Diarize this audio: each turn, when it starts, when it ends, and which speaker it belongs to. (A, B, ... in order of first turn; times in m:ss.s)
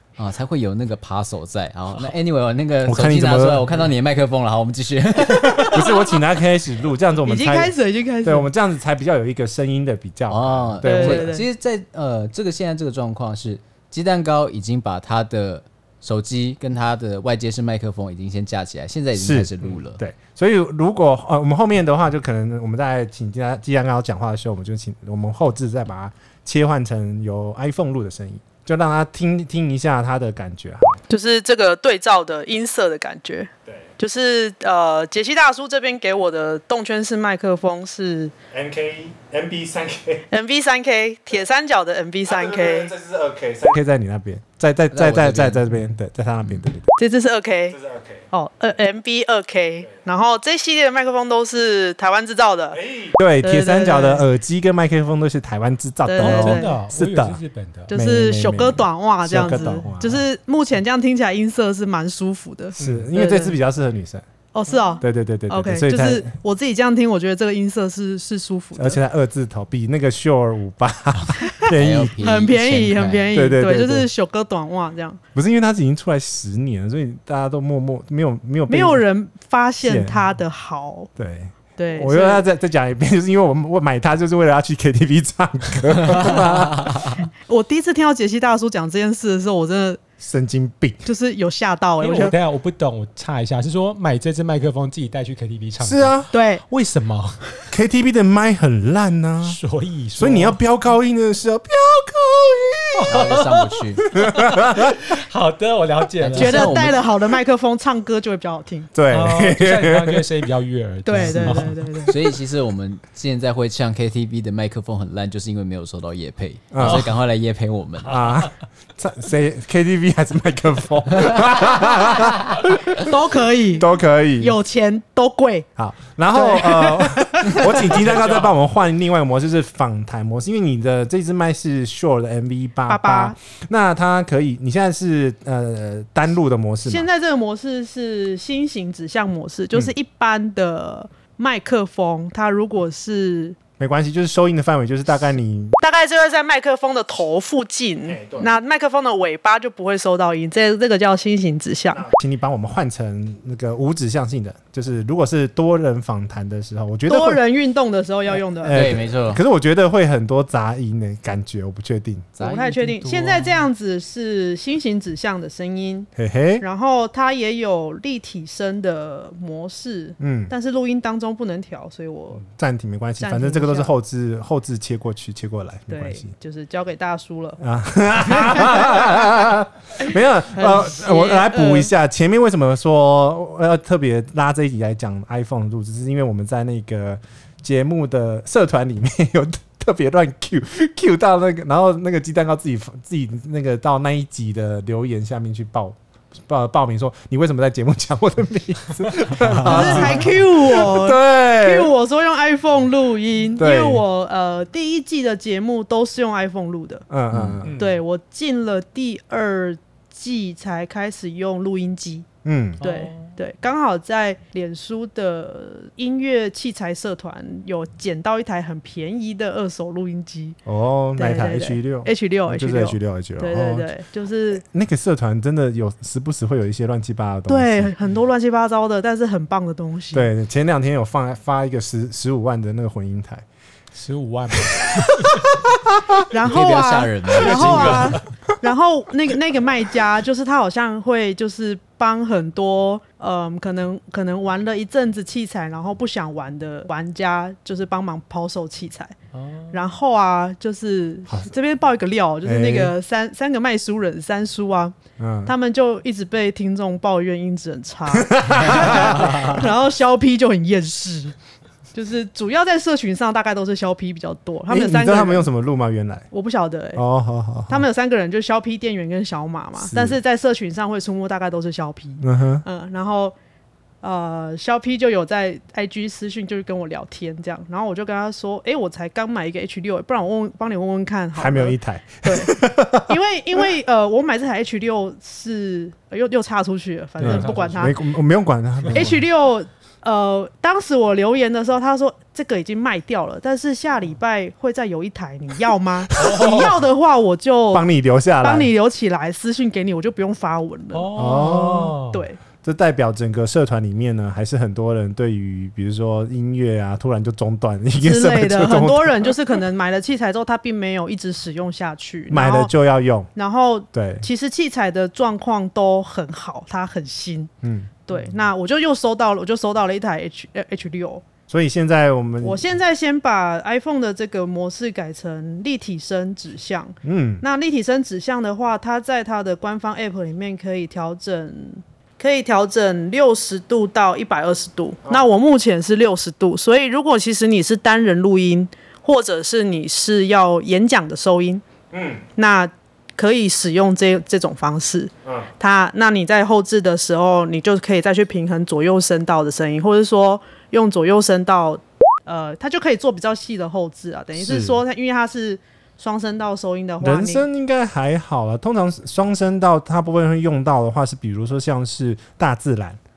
0:00.2-0:05.9 A
0:02.8-0:03.7 B
0:05.4-0:05.7 C
0:05.5-0:11.3 B
0:07.2-0:08.5 C
0:10.3-0:20.0 A
0:10.8-0:11.4 C
0:19.2-0:31.0 B
0:31.1-0:38.3 C
0:38.5-0:40.2 B
0:40.3-0:42.9 C
0:42.3-0:46.8 B
0:44.9-0:45.6 A
0:47.0-0:47.8 C
0:47.7-0:48.2 B
0:48.3-0:52.8 C
0:52.8-1:00.2 B
0:53.4-0:54.2 C
0:56.0-0:56.7 C
0:56.2-0:57.9 D
0:57.9-1:03.5 C
1:02.8-1:04.2 B
1:02.8-1:03.1 D
1:04.5-1:09.0 C
1:05.0-1:06.3 B
1:08.8-1:12.1 B
1:11.4-1:15.2 C
1:11.7-1:13.3 A
1:13.3-1:14.1 B
1:15.3-1:19.0 B
1:18.7-1:21.1 C
1:19.8-1:20.2 B
1:21.2-1:27.3 B
1:21.8-1:22.4 C
1:27.5-1:30.0 C
1:30.2-1:31.0 B
1:31.0-1:32.3 C
1:32.0-1:37.6 D
1:35.8-1:36.3 B
1:36.3-1:36.6 C
1:37.7-1:39.6 B
1:39.4-1:40.6 D
1:40.2-1:43.1 B
1:42.9-1:46.8 D
1:43.1-1:44.0 A
1:44.2-1:45.0 B
1:46.2-1:47.0 A
1:46.4-1:48.9 C
1:48.9-1:50.3 B
1:49.1-1:51.8 D
1:51.0-1:52.2 C
1:51.2-1:51.6 B
1:52.1-1:58.2 A
1:56.7-1:57.1 B
1:58.0-1:58.5 D
1:58.0-2:03.1 B
2:03.0-2:05.7 C
2:03.7-2:04.5 B
2:05.8-2:17.1 B
2:06.3-2:07.9 C
2:07.9-2:08.6 D
2:12.9-2:13.4 C
2:16.8-2:23.6 C
2:23.8-2:25.8 B
2:25.8-2:32.0 C
2:28.1-2:28.5 B
2:31.9-2:37.4 B
2:37.1-2:39.0 C
2:38.6-2:42.3 B
2:38.7-2:39.4 A
2:42.4-2:42.7 A
2:42.4-2:46.1 C
2:42.4-2:43.6 D
2:46.2-2:46.6 B
2:46.6-2:52.4 C
2:50.2-2:50.5 B
2:52.6-2:56.3 B
2:53.2-2:53.9 C
2:55.9-2:57.6 C
2:57.6-3:21.9 B
2:58.3-2:59.0 C
3:00.5-3:01.9 C
3:19.6-3:27.0 C
3:19.6-3:20.2 D
3:23.6-3:24.0 B
3:27.1-3:27.8 B
3:27.6-3:28.0 D
3:27.7-3:32.3 C
3:32.4-3:32.8 B
3:32.8-3:33.3 D
3:32.8-3:40.6 C
3:40.6-3:43.9 B
3:41.2-3:44.6 C
3:44.5-3:47.9 B
3:47.5-3:50.3 C
3:50.1-3:53.4 B
3:53.9-3:55.5 D
3:54.7-3:56.1 B
3:56.3-4:09.1 C
3:56.4-3:58.2 A
3:57.4-3:58.2 D
4:09.3-4:09.8 D
4:09.7-4:21.3 C
4:12.4-4:12.9 B
4:15.2-4:15.5 B
4:18.1-4:19.7 B
4:21.9-4:25.5 C
4:24.7-4:26.3 B
4:26.3-4:27.0 C
4:27.0-4:27.8 B
4:27.7-4:33.3 C
4:29.8-4:30.2 B
4:32.2-4:32.6 B
4:34.0-4:48.0 C
4:41.4-4:43.2 B
4:47.2-4:47.9 D
4:47.2-4:49.2 B
4:48.9-4:57.8 C
4:56.2-4:56.8 D
4:56.3-4:56.6 B
4:57.7-4:58.7 B
4:58.4-5:01.1 C
5:00.9-5:02.2 D
5:01.1-5:02.0 B
5:02.1-5:02.4 C
5:02.6-5:09.4 B
5:08.0-5:12.7 C
5:12.3-5:13.3 B
5:13.3-5:17.5 C
5:13.9-5:14.2 B
5:17.6-5:17.9 B
5:18.0-5:21.2 C
5:21.5-5:22.7 B
5:22.4-5:41.6 C
5:27.0-5:27.4 B
5:41.9-5:42.2 B
5:42.4-5:57.4 C
5:54.4-5:54.8 B
5:57.0-6:03.0 B